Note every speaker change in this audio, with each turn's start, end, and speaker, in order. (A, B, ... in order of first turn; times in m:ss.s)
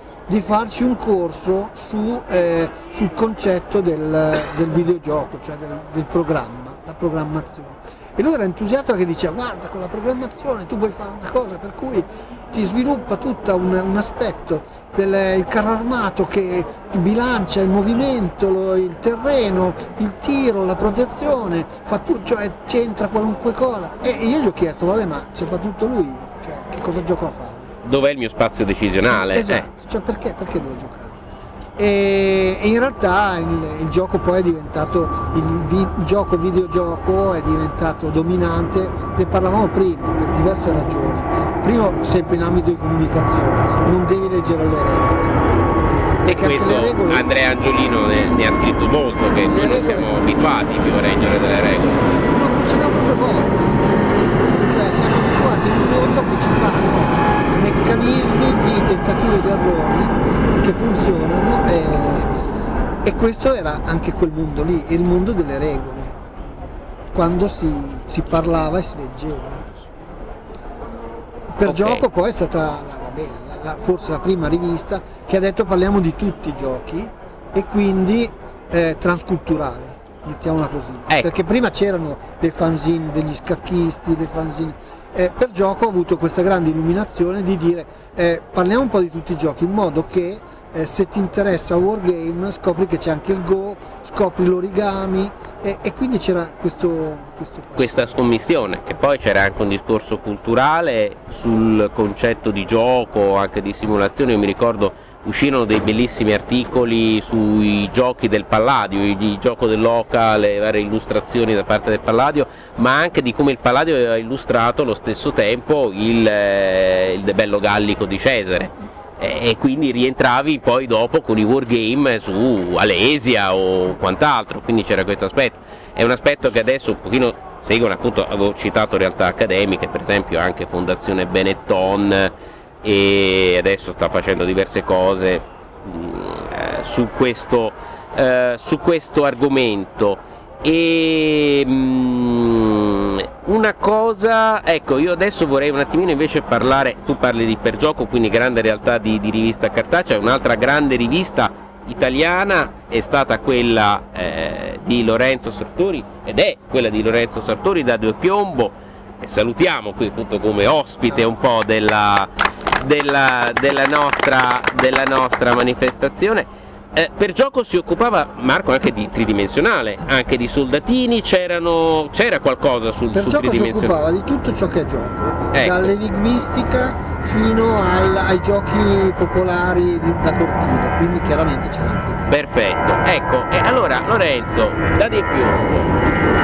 0:00.3-0:27.7 A
0:27.8-0:29.6 B
0:29.1-0:31.2 A
0:31.8-0:45.4 A
0:46.2-0:52.0 B
0:46.2-0:47.2 A
0:49.4-0:50.2 A
0:52.1-0:54.0 A
0:54.6-1:02.3 A
1:03.0-1:06.5 A
1:07.1-1:09.7 A
1:11.5-1:38.1 A
1:11.6-1:12.0 B
1:37.8-2:12.3 B
2:12.8-2:53.9 B
2:53.1-3:02.3 A
2:55.5-2:55.9 B
3:02.3-3:06.0 B